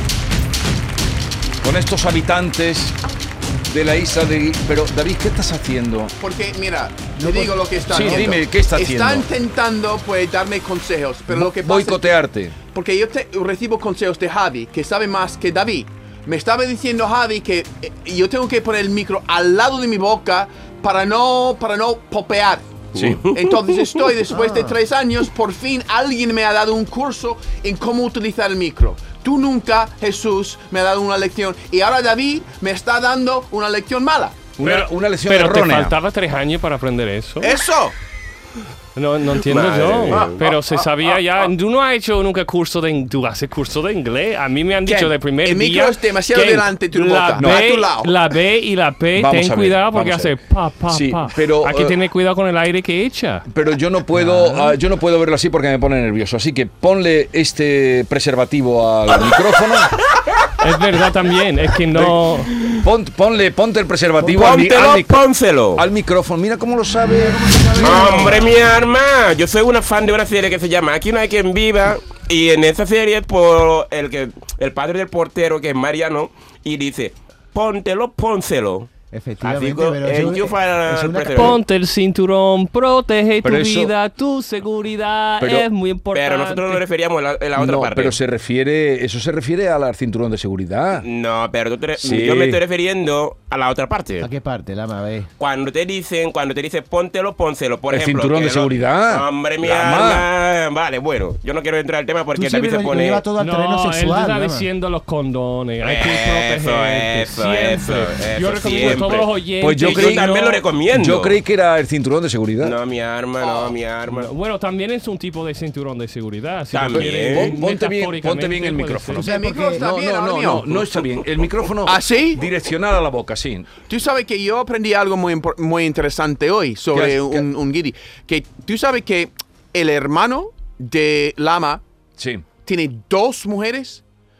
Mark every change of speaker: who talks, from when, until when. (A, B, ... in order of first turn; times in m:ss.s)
0:01.6-0:03.0 A
0:03.6-0:06.1 A
0:06.2-0:12.2 B
0:07.2-0:08.5 C
0:07.9-0:09.3 A
0:11.3-0:12.6 A
0:12.7-0:34.5 B
0:22.9-0:24.2 D
0:22.9-0:23.2 A
0:24.3-0:24.8 C
0:34.6-0:35.9 A
0:34.6-0:37.6 E
0:37.4-0:38.0 B
0:38.9-0:53.5 E
0:39.4-0:40.4 D
0:40.1-0:41.2 B
0:44.8-0:48.1 B
0:47.4-0:47.6 A
0:49.1-0:52.0 A
0:53.5-1:00.1 A
0:54.2-0:54.8 C
1:00.6-1:02.5 E
1:01.9-1:05.2 A
1:04.2-1:05.8 D
1:05.7-1:08.4 A
1:07.0-1:08.6 C
1:07.8-1:18.9 D
1:19.1-1:21.6 C
1:19.4-1:21.6 D
1:21.3-1:26.8 E
1:23.4-1:23.9 A
1:25.4-1:25.7 A
1:26.1-1:28.2 D
1:27.6-1:31.0 A
1:31.0-1:34.3 D
1:32.0-1:32.6 A
1:34.2-1:35.3 C
1:35.4-1:43.2 D
1:37.9-1:40.3 A
1:42.3-1:44.7 C
1:43.4-1:50.6 E
1:45.8-1:51.4 D
1:49.6-1:50.3 A
1:50.9-1:52.7 A
1:52.6-1:54.3 D
1:53.4-1:53.7 B
1:54.1-1:59.2 E
1:56.7-1:57.6 D
1:56.9-2:03.7 A
1:59.2-1:59.9 C
1:59.2-2:01.1 B
2:01.8-2:02.4 B
2:03.9-2:11.8 B
2:06.9-2:07.5 A
2:12.2-2:12.5 A
2:12.6-2:14.0 B